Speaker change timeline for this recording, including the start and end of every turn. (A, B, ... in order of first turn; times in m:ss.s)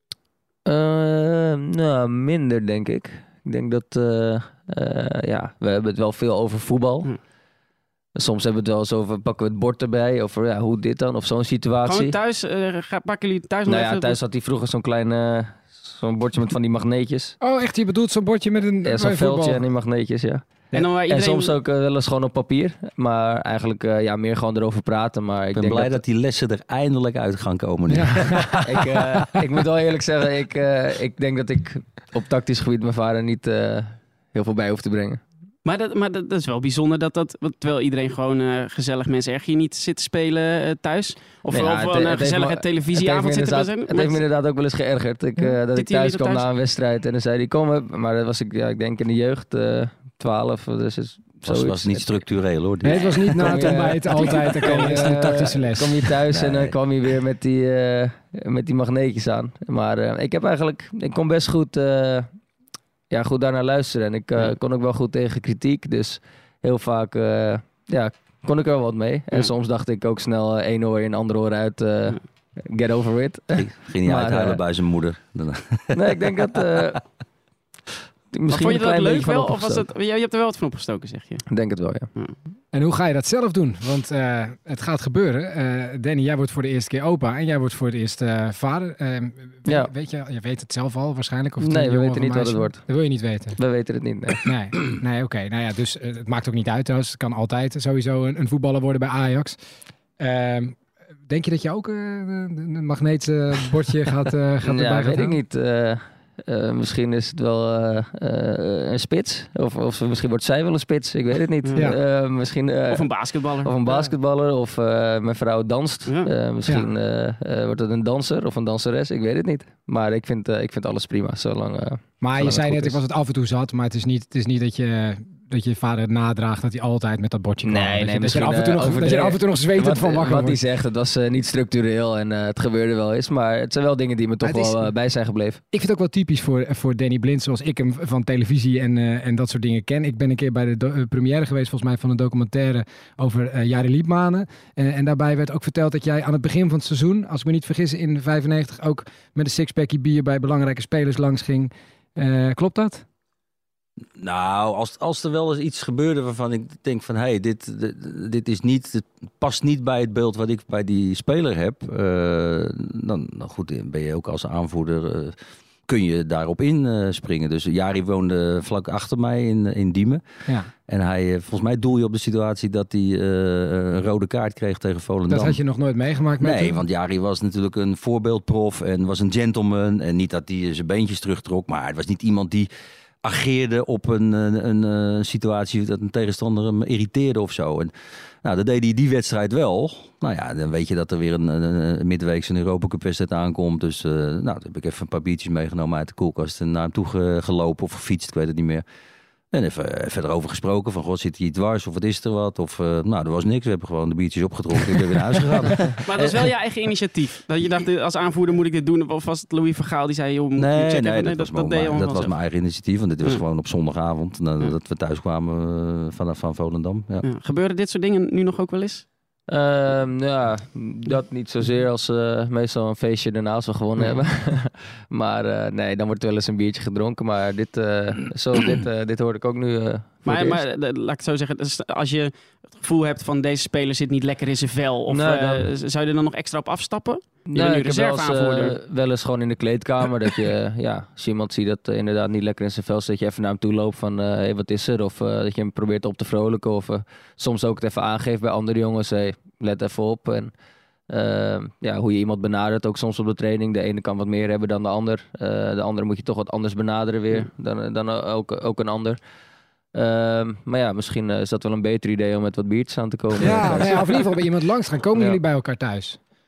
0:00.6-0:07.1 A
0:08.2-0:12.1 A
0:11.8-0:14.2 B
0:13.6-0:17.4 A
0:17.4-0:19.6 C
0:18.8-0:26.0 A
0:20.7-0:21.5 B
0:25.5-0:28.7 D
0:27.9-0:28.6 C
0:28.6-0:35.2 A
0:35.6-0:44.2 B
0:41.5-0:52.1 A
0:45.7-0:46.4 B
0:51.4-0:55.5 D
0:52.8-0:56.0 C
0:53.3-1:02.3 A
0:56.3-0:56.8 D
1:03.1-1:14.6 A
1:13.5-1:16.3 D
1:15.9-1:17.0 A
1:18.3-1:19.8 A
1:18.5-1:21.4 B
1:21.5-1:22.1 A
1:22.7-1:33.6 C
1:29.6-1:29.9 A
1:31.6-1:32.9 A
1:33.6-1:34.4 A
1:34.4-1:39.6 C
1:40.2-1:45.4 C
1:44.6-1:53.1 A
1:51.6-1:51.9 B
1:52.9-1:54.1 B
1:53.6-2:03.0 A
2:02.2-2:10.6 C
2:07.6-2:15.6 A
2:14.4-2:14.9 C
2:15.7-2:33.0 C
2:34.2-2:50.2 D
2:50.9-2:55.6 D
2:55.3-2:56.8 C
2:56.4-3:02.7 D
3:03.2-3:07.9 D
3:08.4-3:18.8 D
3:19.5-3:26.5 D
3:25.7-3:32.3 B
3:30.6-3:37.2 D
3:37.2-3:39.0 B
3:39.5-3:50.6 A
3:50.2-3:58.8 B
3:55.1-3:55.6 A
3:57.5-4:10.5 A
4:11.1-4:19.2 A
4:19.9-4:24.2 A
4:23.4-4:26.2 C